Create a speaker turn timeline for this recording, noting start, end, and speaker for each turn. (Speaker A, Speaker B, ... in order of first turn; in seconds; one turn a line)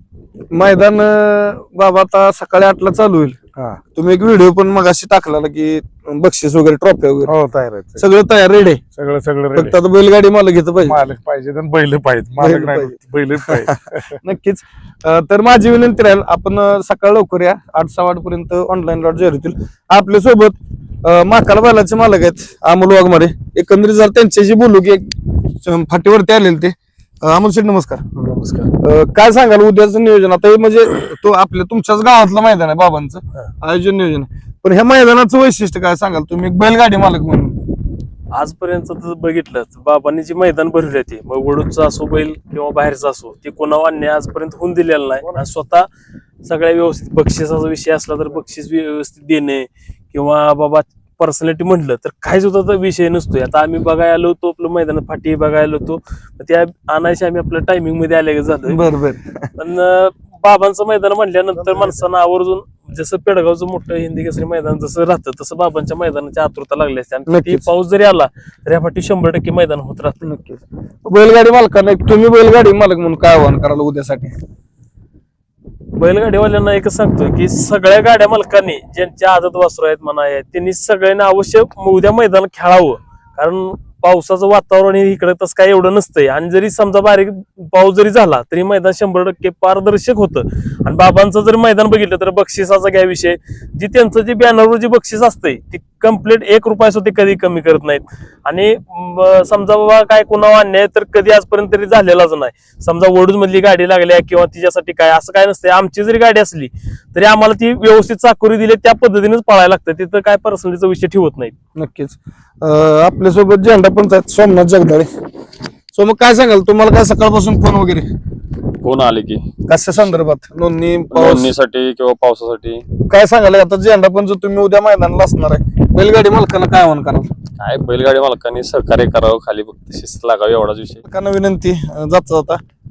Speaker A: 0.5-3.4
Speaker A: 3.9-7.3
Speaker B: 7.3-8.0
Speaker A: 8.0-8.8
Speaker B: 8.9-9.8
Speaker A: 9.5-11.0
Speaker B: 10.9-14.2
Speaker A: 12.4-28.0
Speaker C: 28.1-28.7
Speaker A: 28.8-37.7
Speaker C: 38.3-45.9
Speaker C: 46.4-58.8
Speaker A: 58.7-59.5
Speaker C: 59.6-70.2
Speaker A: 67.3-67.7
Speaker A: 70.2-74.3
Speaker C: 76.0-111.5
Speaker A: 111.8-115.1
Speaker A: 115.9-118.1
Speaker D: 118.8-119.5
Speaker A: 119.7-121.5
Speaker D: 121.1-122.8
Speaker A: 123.0-127.3
Speaker D: 127.6-131.0
Speaker A: 131.0-132.6